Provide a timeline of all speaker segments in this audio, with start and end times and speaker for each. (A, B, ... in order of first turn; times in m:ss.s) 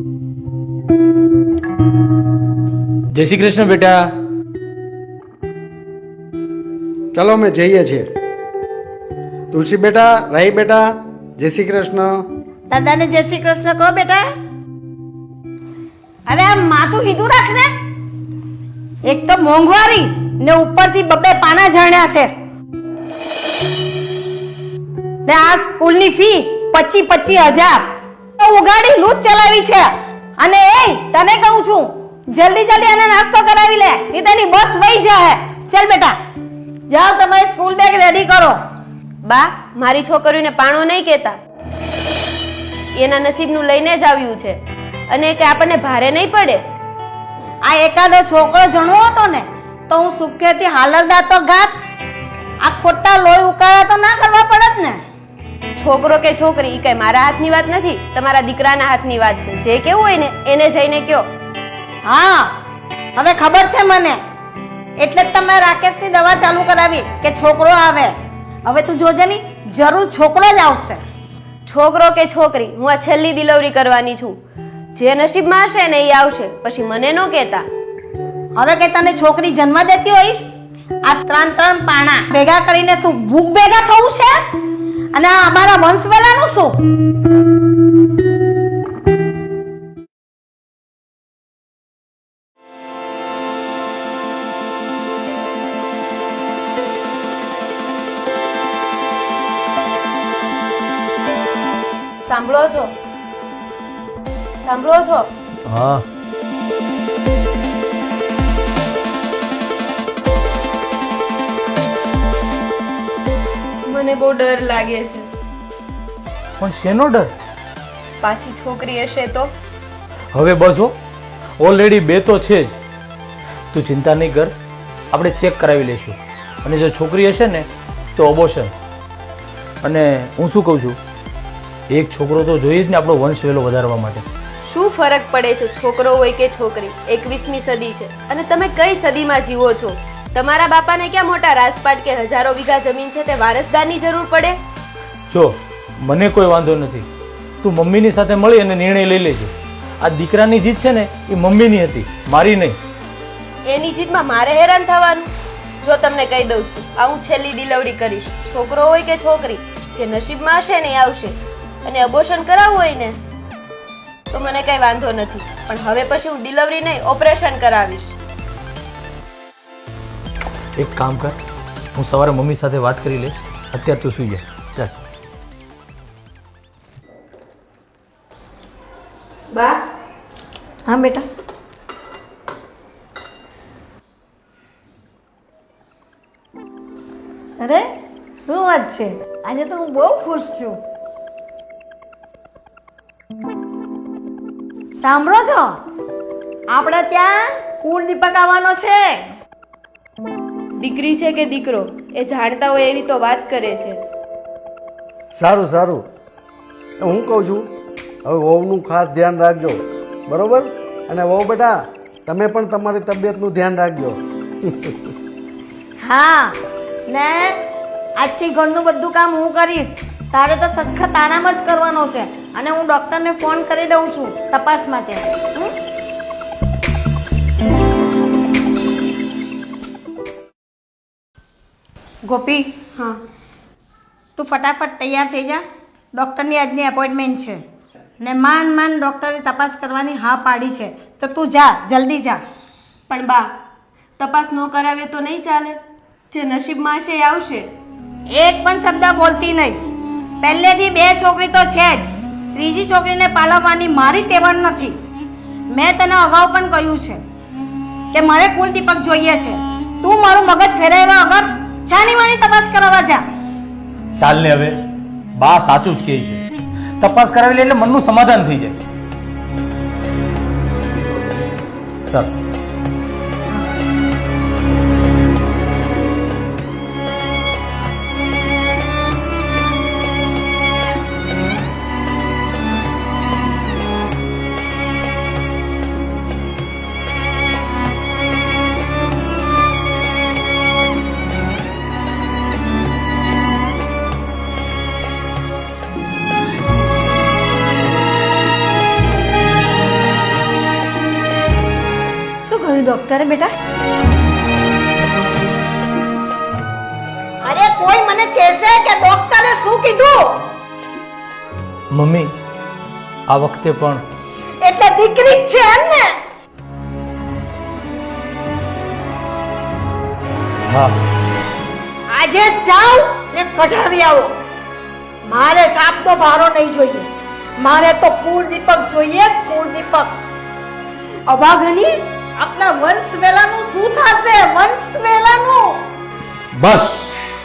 0:03.1-0:04.1 A
0:07.1-0:08.1 B
0:09.5-0:12.2 B
0:12.7-0:14.3 C
0:16.3-0:17.7 C
0:19.0-0:22.3 C
0:25.2-0:36.2 C
0:36.9-0:38.6 C
0:39.2-0:41.4 D
0:43.0-0:44.6 D
0:45.1-0:46.6 D
0:47.6-0:51.8 C
0:52.6-0:55.0 C
0:55.8-1:01.2 D
1:02.0-1:02.6 C
1:03.2-1:04.2 C
1:05.0-1:11.0 C
1:11.7-1:14.4 D
1:14.9-1:17.6 D
1:18.6-1:24.4 C
1:25.1-1:26.8 C
1:42.2-1:42.9 D
1:44.6-1:45.3 D
1:45.7-1:46.0 A
1:53.9-1:55.2 D
1:56.6-1:57.3 A
1:58.2-1:59.5 D
2:00.3-2:00.9 A
2:01.6-2:02.7 A
2:03.7-2:04.5 A
2:05.1-2:08.7 A
2:09.8-2:11.0 A
2:11.9-2:14.3 A
2:14.7-2:24.6 D
2:25.3-2:27.1 A
2:27.6-2:32.8 A
2:33.7-2:35.3 D
2:35.8-2:43.2 D
2:44.3-2:48.1 D
2:50.8-2:51.3 A
2:52.0-2:54.9 A
2:59.5-2:59.8 D
3:00.9-3:01.2 C
3:07.6-3:07.9 C
3:08.4-3:10.8 C
3:15.0-3:15.8 C
3:16.7-3:19.2 C
3:20.8-3:24.0 D
3:25.3-3:26.0 B
3:27.0-3:27.7 B
3:28.3-3:35.0 B
3:36.0-3:36.6 C
3:37.1-3:37.6 C
3:38.2-3:45.7 C
3:52.2-3:52.7 C
3:54.4-3:55.6 C
3:56.1-3:57.6 C
3:58.2-4:02.4 C
4:03.1-4:03.5 D
4:04.2-4:05.8 D
4:06.3-4:07.7 D
4:08.3-4:09.8 C
4:10.4-4:15.0 C
4:15.7-4:17.2 C
4:18.1-4:23.2 C
4:24.2-4:24.8 A
4:25.4-4:26.4 A
4:27.0-4:28.8 A
5:02.4-5:03.5 C
5:07.4-5:10.4 C
5:11.9-5:12.3 A
5:13.3-5:14.0 A
5:14.6-5:16.2 C
5:20.7-5:21.0 A
5:22.1-5:24.4 C
5:25.2-5:30.2 C
5:31.3-5:35.8 C
5:36.6-5:37.2 B